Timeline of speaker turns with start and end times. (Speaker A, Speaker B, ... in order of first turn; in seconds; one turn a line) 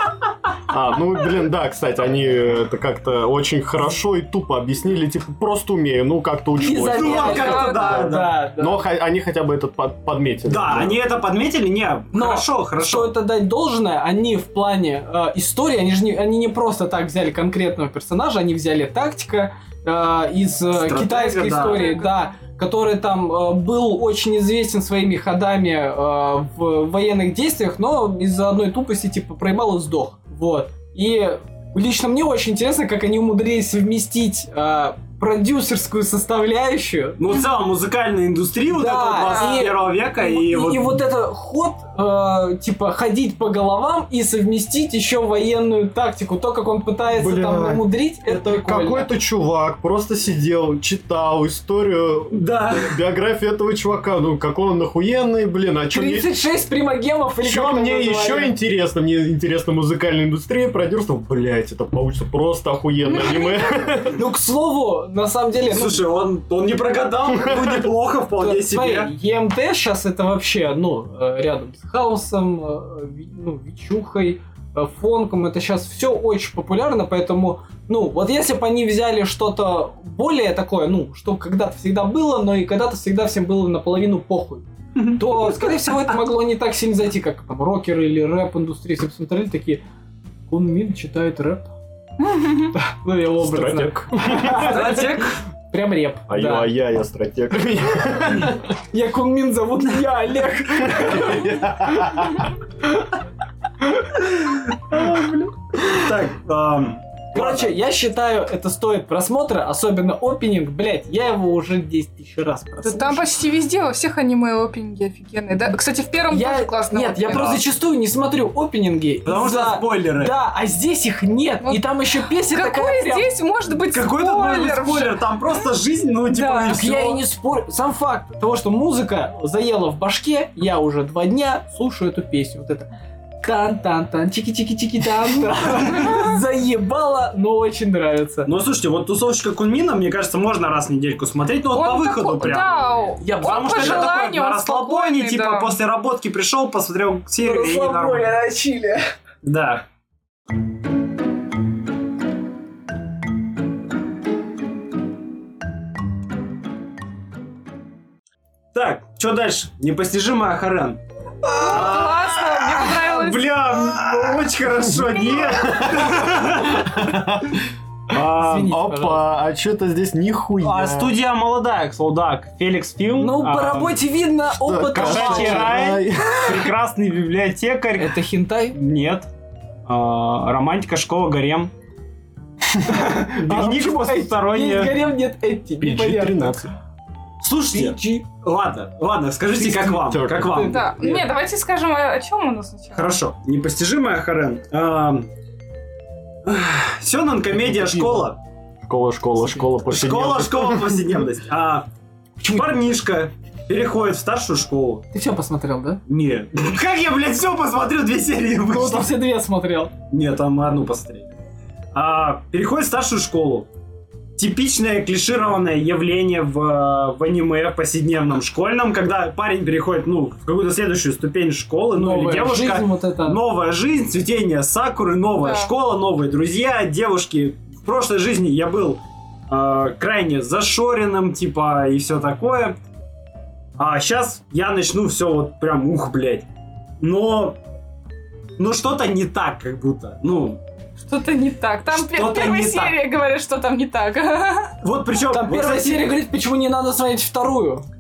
Speaker A: 0.7-11.0
Speaker B: 6.6-8.8
Speaker C: 6.9-8.3
Speaker D: 7.1-8.1
Speaker C: 10.5-13.1
Speaker B: 12.1-37.2
Speaker C: 20.7-21.9
Speaker D: 21.5-22.4
Speaker C: 37.2-41.0
Speaker B: 38.7-49.1
Speaker D: 39.2-39.7
Speaker A: 47.1-56.3
Speaker C: 52.3-53.0
Speaker B: 55.9-58.5
Speaker A: 57.4-64.2
Speaker D: 63.2-63.6
Speaker B: 64.1-66.1
Speaker C: 65.7-69.1
Speaker B: 68.4-89.8
Speaker B: 90.5-91.7
Speaker B: 92.7-96.7
Speaker A: 93.4-95.0
Speaker C: 94.4-95.4
Speaker A: 96.3-98.7
Speaker B: 98.9-103.0
Speaker A: 100.8-102.5
Speaker B: 104.9-105.5
Speaker C: 105.8-107.7
Speaker B: 107.3-113.3
Speaker D: 112.8-117.5
Speaker B: 116.3-123.3
Speaker C: 117.3-117.6
Speaker C: 119.2-120.3
Speaker D: 122.5-125.2
Speaker C: 123.9-127.2
Speaker D: 126.3-126.9
Speaker B: 126.7-132.9
Speaker B: 133.4-138.5
Speaker C: 138.5-148.3
Speaker D: 141.7-145.7
Speaker B: 143.2-144.3
Speaker B: 147.4-149.0
Speaker C: 149.4-149.8
Speaker C: 158.7-161.0
Speaker D: 161.5-163.7
Speaker C: 161.6-167.0
Speaker A: 166.8-167.6
Speaker C: 168.1-168.8
Speaker B: 168.2-169.3
Speaker A: 168.6-171.1
Speaker C: 170.6-174.0
Speaker B: 173.2-176.0
Speaker A: 174.6-176.7
Speaker C: 174.9-179.3
Speaker B: 178.0-178.8
Speaker C: 179.9-181.7
Speaker B: 182.9-186.6
Speaker C: 182.9-185.0
Speaker A: 185.8-186.7
Speaker C: 187.4-190.9
Speaker B: 187.7-188.3
Speaker B: 189.5-191.3
Speaker A: 189.9-190.7
Speaker D: 190.7-193.1
Speaker C: 192.9-195.3
Speaker C: 196.5-198.4
Speaker A: 198.9-201.0
Speaker C: 199.9-201.8
Speaker B: 202.4-202.7
Speaker C: 202.4-205.1
Speaker B: 205.1-206.0
Speaker C: 206.1-209.2
Speaker B: 208.7-209.9
Speaker C: 210.1-211.3
Speaker C: 211.9-213.7
Speaker C: 214.4-232.8
Speaker B: 221.9-223.4
Speaker D: 225.4-225.7
Speaker C: 233.8-236.5
Speaker C: 237.0-237.6
Speaker C: 238.6-240.6
Speaker D: 241.1-244.7
Speaker C: 241.9-243.0
Speaker C: 244.8-246.1
Speaker B: 245.3-247.8